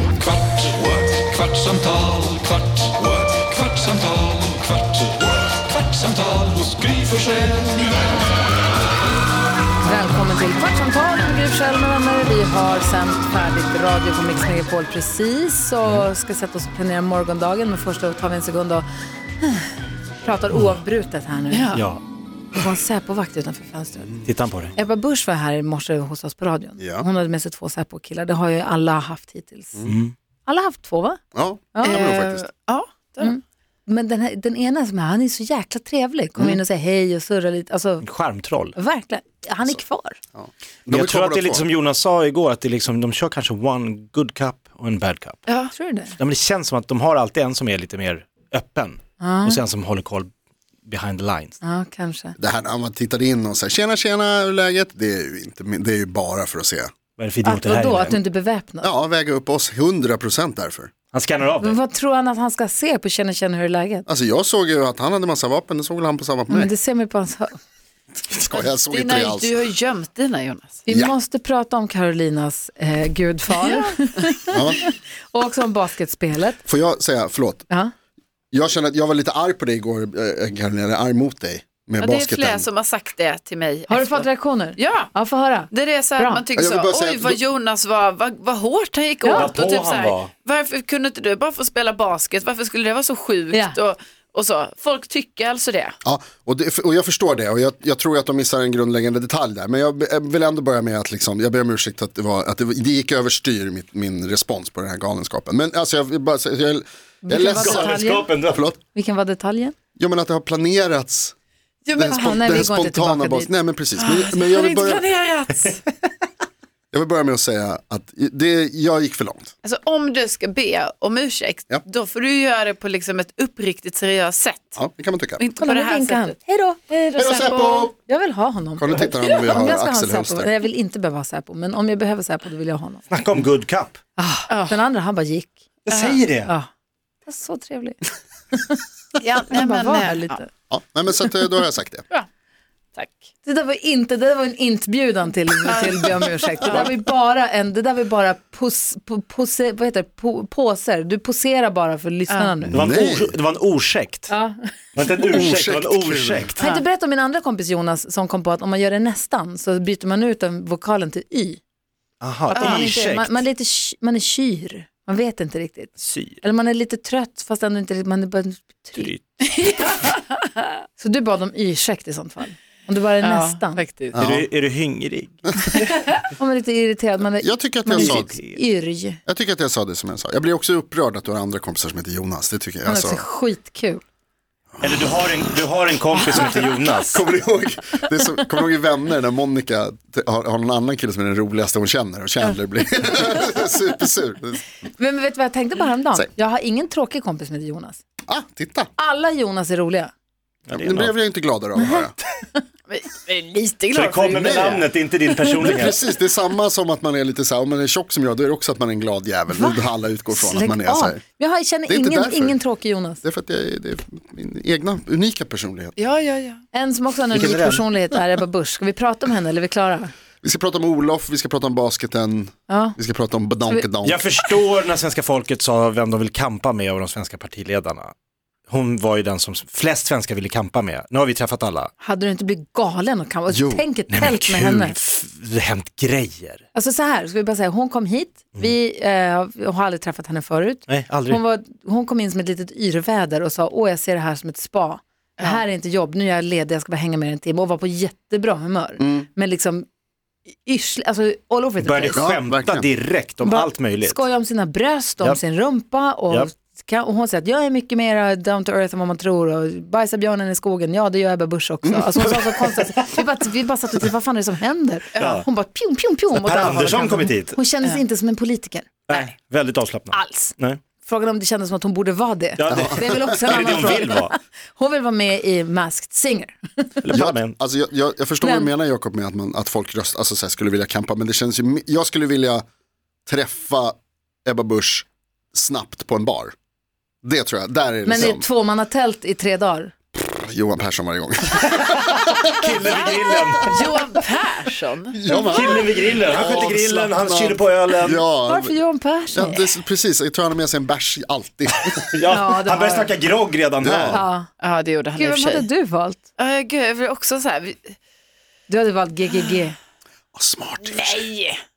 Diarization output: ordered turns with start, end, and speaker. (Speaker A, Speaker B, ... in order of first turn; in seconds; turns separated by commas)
Speaker A: 0.2-7.9, Speaker B: 9.8-18.9, Speaker B: 19.4-21.8, Speaker C: 21.5-21.8, Speaker D: 21.8-22.0, Speaker B: 22.6-29.9, Speaker D: 24.3-24.7, Speaker E: 26.8-27.1, Speaker D: 29.9-30.1, Speaker B: 30.5-31.2, Speaker E: 31.4-32.5, Speaker B: 31.8-32.1, Speaker C: 31.8-33.3, Speaker B: 33.2-38.1, Speaker D: 38.0-38.8, Speaker B: 38.8-40.2, Speaker E: 40.4-41.6, Speaker D: 40.9-45.4, Speaker B: 45.7-46.1, Speaker D: 46.1-50.3, Speaker B: 49.2-49.6, Speaker D: 50.9-51.6, Speaker B: 51.6-52.4, Speaker E: 52.4-56.9, Speaker D: 57.2-58.2, Speaker B: 57.4-58.9, Speaker E: 58.8-60.9, Speaker D: 61.1-61.8, Speaker B: 61.6-64.1, Speaker E: 64.1-66.7, Speaker B: 66.5-67.5, Speaker E: 68.3-69.6, Speaker C: 68.5-70.9, Speaker B: 70.9-76.6, Speaker E: 70.9-71.2, Speaker C: 73.6-73.9, Speaker E: 74.5-74.8, Speaker E: 76.6-77.7, Speaker E: 78.5-82.7, Speaker C: 82.0-85.1, Speaker B: 83.9-86.4, Speaker C: 85.7-96.0, Speaker E: 86.5-87.4, Speaker B: 89.2-89.5, Speaker D: 89.3-90.3, Speaker E: 96.0-108.8, Speaker B: 107.2-108.3, Speaker D: 107.5-108.7, Speaker B: 108.9-109.8, Speaker E: 110.0-111.3, Speaker C: 111.9-112.2, Speaker E: 112.0-115.0, Speaker B: 112.1-113.5, Speaker C: 114.0-115.8, Speaker E: 116.9-119.5, Speaker C: 119.6-124.8, Speaker E: 124.8-125.4, Speaker C: 125.4-126.4, Speaker B: 125.6-126.8, Speaker C: 126.9-127.9, Speaker E: 127.2-127.9, Speaker B: 128.0-133.0, Speaker E: 128.8-130.5, Speaker D: 133.1-134.0, Speaker B: 134.2-135.6, Speaker C: 134.5-134.8, Speaker D: 135.9-136.5, Speaker C: 135.9-136.2, Speaker B: 137.3-138.8, Speaker C: 139.2-140.4, Speaker B: 139.5-140.5, Speaker E: 140.7-142.1, Speaker B: 143.4-152.7, Speaker C: 145.7-146.9, Speaker C: 152.3-152.6, Speaker E: 152.6-153.4, Speaker D: 152.7-154.3, Speaker B: 154.3-154.6, Speaker D: 154.9-156.7, Speaker E: 155.3-156.6, Speaker B: 156.6-161.6, Speaker D: 162.2-163.4, Speaker B: 162.5-169.1, Speaker C: 162.6-162.9, Speaker D: 166.0-166.4, Speaker D: 169.0-169.4, Speaker C: 169.5-170.3, Speaker B: 171.0-173.8, Speaker C: 173.2-174.2, Speaker E: 174.1-174.4, Speaker D: 174.2-175.8, Speaker B: 176.3-179.2, Speaker E: 177.4-178.4, Speaker D: 177.9-178.6, Speaker E: 179.3-183.2, Speaker B: 182.8-184.0, Speaker E: 184.8-185.2, Speaker D: 184.8-187.2, Speaker B: 186.3-186.7, Speaker E: 187.1-194.6, Speaker B: 195.0-198.0, Speaker E: 198.3-198.9, Speaker B: 199.0-200.1, Speaker D: 200.7-201.1, Speaker E: 200.7-202.2, Speaker B: 201.8-202.6, Speaker C: 202.9-204.6, Speaker D: 203.9-206.0, Speaker E: 204.3-204.9, Speaker E: 205.5-211.2, Speaker B: 209.5-213.2, Speaker E: 211.9-212.6, Speaker E: 213.2-216.0, Speaker C: 216.0-216.6, Speaker B: 216.7-220.1, Speaker D: 217.3-217.8, Speaker E: 220.4-224.3, Speaker B: 222.7-223.0, Speaker D: 224.0-228.1, Speaker D: 228.7-231.9, Speaker B: 232.0-235.0, Speaker E: 233.5-233.8, Speaker D: 234.1-236.6, Speaker B: 236.7-249.9, Speaker D: 240.9-241.4, Speaker E: 249.0-249.3, Speaker B: 250.6-252.2, Speaker D: 251.8-254.2, Speaker E: 252.1-252.9, Speaker B: 253.4-269.3, Speaker E: 261.9-262.3, Speaker C: 265.1-265.4, Speaker D: 265.2-265.5, Speaker D: 266.3-267.6, Speaker D: 269.1-270.8, Speaker B: 270.1-277.0, Speaker D: 272.6-274.3, Speaker E: 272.7-273.5, Speaker D: 277.0-277.6, Speaker E: 277.1-282.6, Speaker B: 278.4-278.7, Speaker E: 283.3-286.5, Speaker E: 287.2-288.4, Speaker B: 288.1-289.9, Speaker E: 290.2-292.6, Speaker D: 291.7-293.8, Speaker C: 293.7-295.4, Speaker E: 295.1-298.8, Speaker D: 295.5-298.2, Speaker B: 298.5-299.7, Speaker E: 299.3-302.1, Speaker D: 302.0-304.2, Speaker B: 302.3-303.1, Speaker E: 303.8-304.2, Speaker B: 304.1-304.5, Speaker C: 304.6-305.7, Speaker B: 305.1-306.2, Speaker C: 306.4-308.0, Speaker B: 308.7-309.8, Speaker C: 309.3-309.6, Speaker E: 310.4-311.3, Speaker C: 310.8-311.6